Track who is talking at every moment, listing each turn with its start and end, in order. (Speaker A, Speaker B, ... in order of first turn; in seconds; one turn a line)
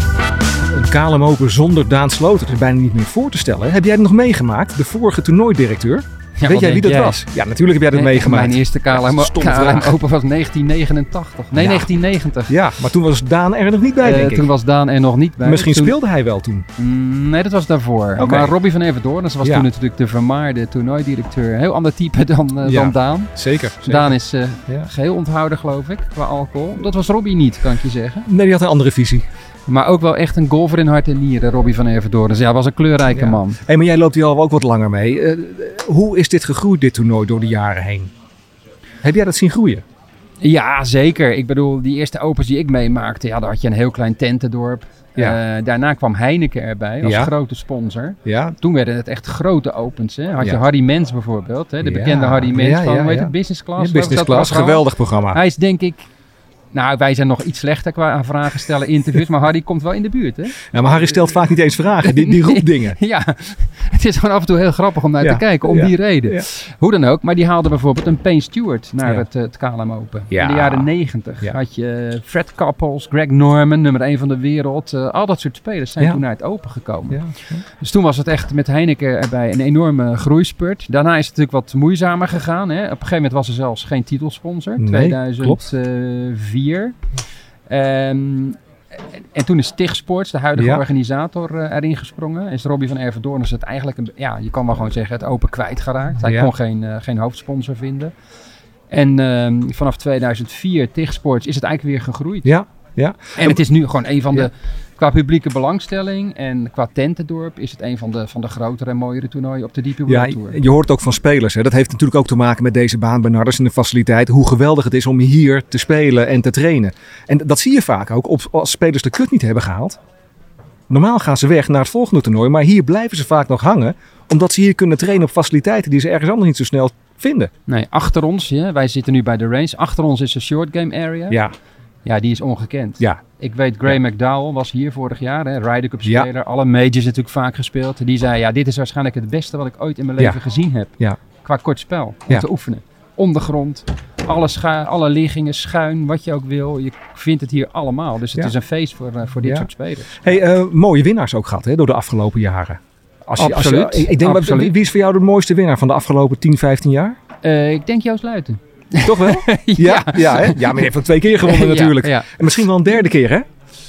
Speaker A: 0.7-10.0
Speaker B: 6.4-7.2
Speaker B: 7.9-12.6
Speaker A: 11.6-11.9
Speaker A: 12.5-14.5
Speaker B: 14.0-16.0
Speaker A: 15.4-16.6
Speaker B: 16.8-28.3
Speaker A: 18.2-18.6
Speaker A: 19.4-19.7
Speaker A: 22.6-24.1
Speaker A: 28.3-29.2
Speaker B: 29.7-33.6
Speaker A: 33.1-38.1
Speaker A: 39.0-39.8
Speaker B: 40.4-56.1
Speaker A: 47.0-47.3
Speaker A: 48.2-48.5
Speaker A: 51.8-55.4
Speaker B: 56.7-60.6
Speaker A: 60.7-63.0
Speaker B: 62.0-87.0
Speaker A: 65.2-66.5
Speaker A: 70.3-70.9
Speaker A: 77.1-77.6
Speaker A: 84.8-85.6
Speaker B: 87.7-88.6
Speaker B: 89.3-98.1
Speaker A: 90.6-90.8
Speaker A: 96.2-96.5
Speaker B: 98.9-102.5
Speaker A: 102.4-103.6
Speaker B: 103.4-110.6
Speaker A: 110.1-120.0
Speaker A: 120.9-127.5
Speaker B: 127.7-131.4
Speaker B: 132.1-150.3
Speaker A: 149.4-152.8
Speaker B: 153.3-154.7
Speaker A: 153.3-157.2
Speaker B: 157.4-160.8
Speaker A: 159.0-163.5
Speaker B: 161.4-162.4